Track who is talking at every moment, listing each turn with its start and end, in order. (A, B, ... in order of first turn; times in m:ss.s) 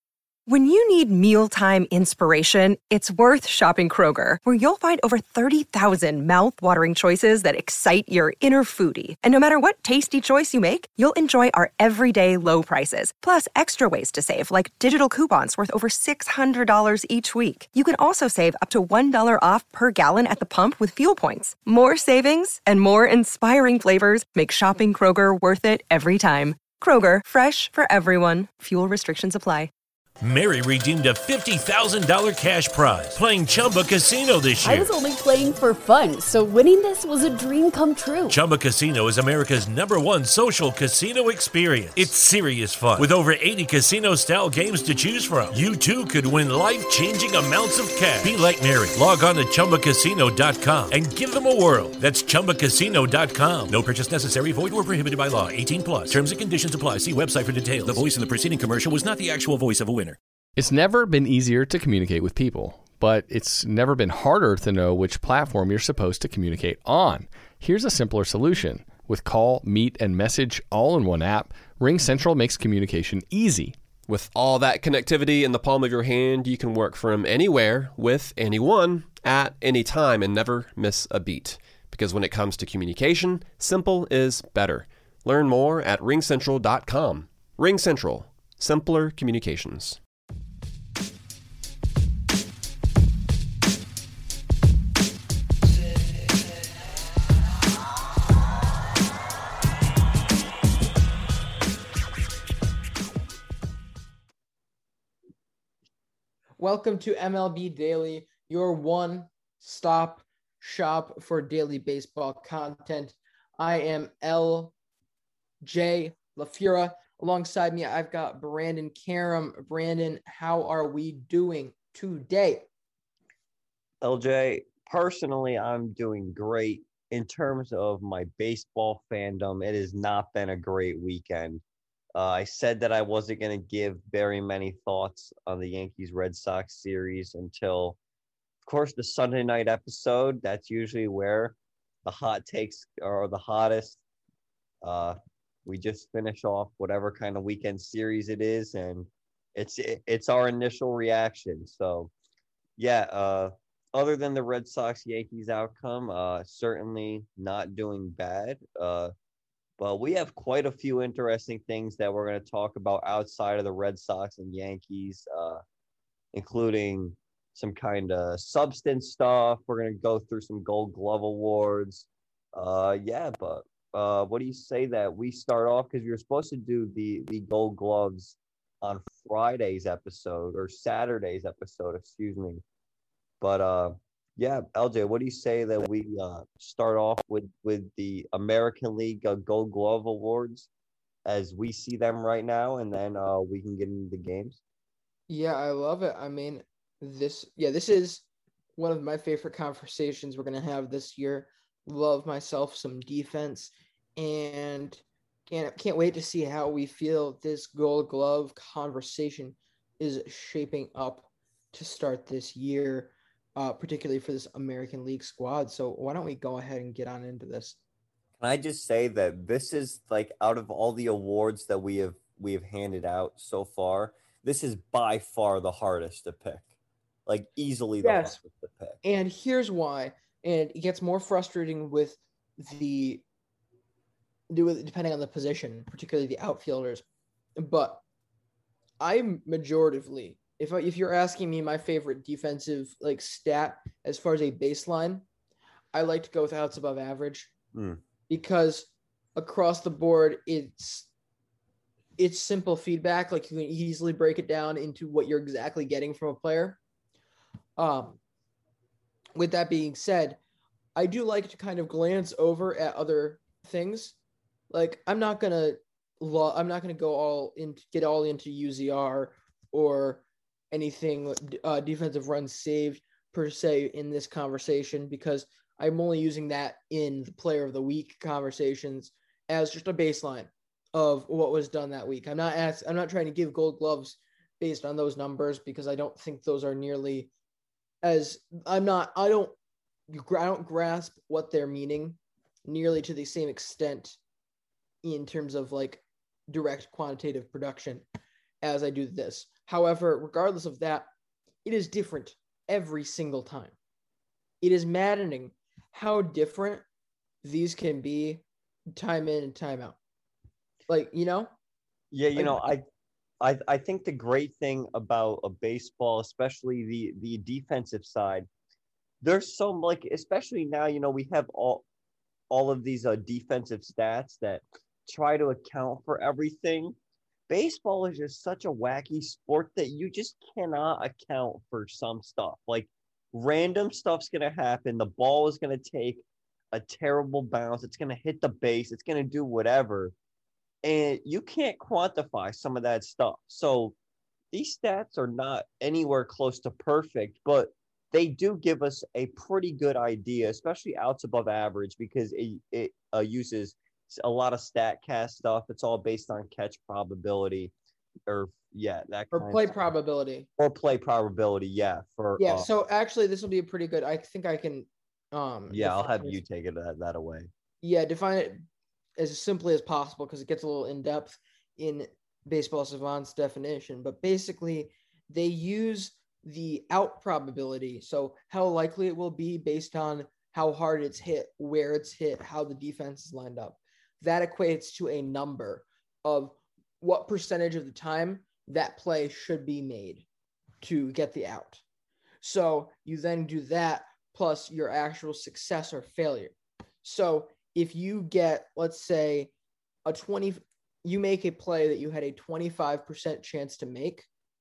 0:00.5-0:29.7 A
0:30.2-0:34.9 B
0:34.6-0:38.4 C
0:38.3-1:00.2 B
1:00.6-1:13.8 D
1:14.1-1:30.0 E
1:46.6-1:54.7 F
1:55.6-2:02.6 F
2:04.0-2:11.6 G
2:12.1-2:18.0 G
2:18.6-2:24.0 G
2:24.8-2:32.1 G
2:32.8-2:39.1 G
2:39.8-2:45.6 G
2:46.3-3:02.6 G
3:03.4-3:10.7 G
3:11.2-3:14.6 G
3:15.3-3:18.2 F
3:18.8-3:37.8 F
3:38.4-3:46.7 G
3:47.3-3:49.0 G
3:48.0-3:48.4 F
3:49.0-3:53.2 F
3:54.5-3:57.0 F
3:57.6-3:58.0 F
3:59.0-4:05.2 F
4:05.9-4:07.5 F
4:07.7-4:08.0 G
4:08.3-4:11.1 F
4:12.2-4:16.8 F
4:17.8-4:18.2 F
4:19.4-4:20.4 F
4:21.0-4:24.2 F
4:24.7-4:47.3 F
4:48.0-4:49.5 F
4:50.1-4:54.2 F
4:55.0-4:58.0 F
4:58.6-5:01.1 F
5:01.6-5:03.8 F
5:04.6-5:06.8 F
5:07.4-5:10.0 F
5:10.9-5:11.5 F
5:12.1-5:12.8 G
5:12.3-5:12.6 F
5:13.4-5:18.5 G
5:19.2-5:21.8 G
5:22.5-5:26.9 G
5:27.5-5:40.1 G
5:40.8-5:43.9 G
5:44.5-5:57.7 G
5:58.3-5:59.7 G
5:59.3-6:00.5 F
6:00.6-6:02.7 G
6:02.4-6:06.4 F
6:05.7-6:07.5 G
6:07.8-6:08.6 F
6:09.2-6:30.2 F
6:30.8-6:31.8 F
6:32.4-6:39.5 F
6:40.0-6:44.3 F